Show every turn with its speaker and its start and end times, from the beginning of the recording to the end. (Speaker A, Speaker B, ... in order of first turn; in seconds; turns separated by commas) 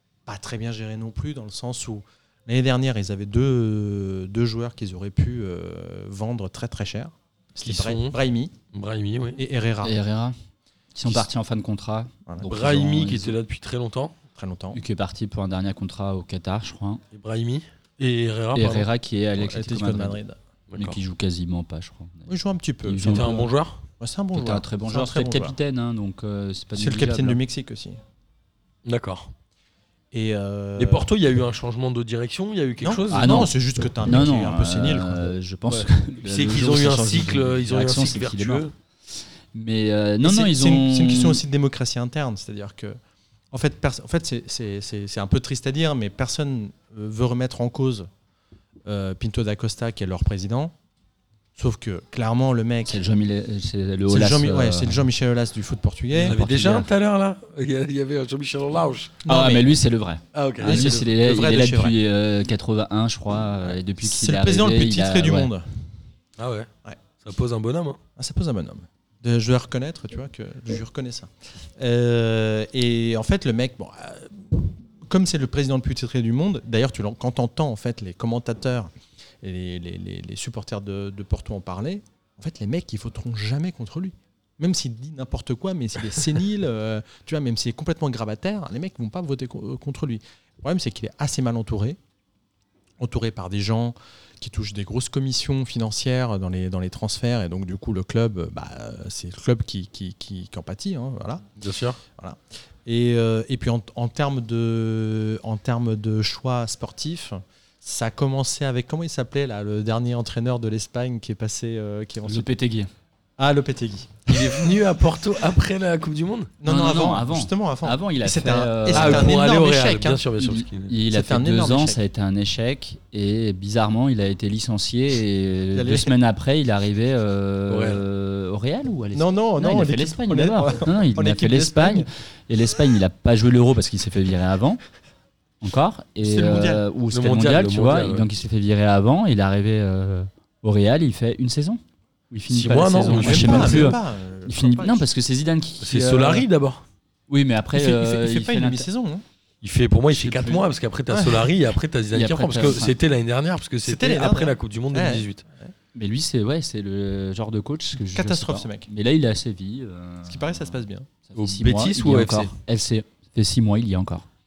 Speaker A: 0.3-8.6, Speaker B: 7.6-8.2, Speaker B: 8.7-9.4, Speaker A: 9.4-10.0, Speaker C: 9.8-10.3, Speaker C: 10.9-13.3, Speaker B: 12.5-14.2, Speaker A: 14.3-14.8, Speaker C: 14.7-17.0, Speaker B: 17.1-18.9, Speaker C: 18.5-20.2, Speaker A: 19.4-20.4, Speaker B: 20.7-21.0, Speaker C: 20.8-22.3, Speaker A: 22.3-23.3, Speaker C: 22.9-23.5, Speaker B: 23.1-23.8, Speaker A: 24.0-25.6, Speaker C: 24.3-27.4, Speaker A: 26.8-28.0, Speaker B: 28.9-29.3, Speaker A: 30.1-31.1, Speaker B: 30.8-33.5, Speaker A: 32.8-35.3, Speaker C: 33.1-38.7, Speaker B: 35.7-38.7, Speaker C: 39.5-41.4, Speaker A: 40.2-43.0, Speaker A: 43.5-48.1, Speaker A: 48.9-50.7, Speaker A: 51.6-53.0, Speaker C: 52.9-55.0, Speaker A: 54.1-56.4, Speaker C: 56.1-56.9, Speaker B: 56.2-59.2, Speaker A: 59.2-59.7, Speaker C: 59.3-65.5, Speaker B: 60.3-61.1, Speaker A: 60.6-62.0, Speaker A: 63.6-65.7, Speaker B: 66.4-66.7, Speaker B: 67.2-68.0, Speaker A: 68.2-78.9, Speaker A: 79.4-92.0, Speaker A: 93.0-101.5, Speaker B: 101.6-102.0, Speaker A: 102.2-112.5, Speaker C: 112.2-112.9, Speaker A: 113.4-114.6, Speaker B: 114.3-116.5, Speaker A: 116.6-120.2, Speaker C: 116.6-119.3, Speaker B: 118.9-120.9, Speaker C: 120.4-134.8, Speaker A: 121.1-122.0, Speaker A: 125.7-126.2, Speaker B: 127.7-128.0, Speaker A: 129.1-132.1, Speaker C: 135.6-141.8, Speaker A: 136.2-136.8, Speaker B: 137.1-138.3, Speaker C: 142.3-146.5, Speaker B: 142.5-144.0, Speaker A: 143.1-145.1, Speaker B: 145.8-146.8, Speaker C: 147.3-148.9, Speaker A: 147.7-149.2, Speaker B: 149.6-155.4, Speaker C: 150.2-150.6, Speaker A: 151.1-151.5, Speaker C: 152.1-153.0, Speaker A: 153.8-155.7, Speaker C: 155.9-164.3, Speaker A: 158.1-158.9, Speaker A: 160.2-161.1, Speaker B: 161.4-162.5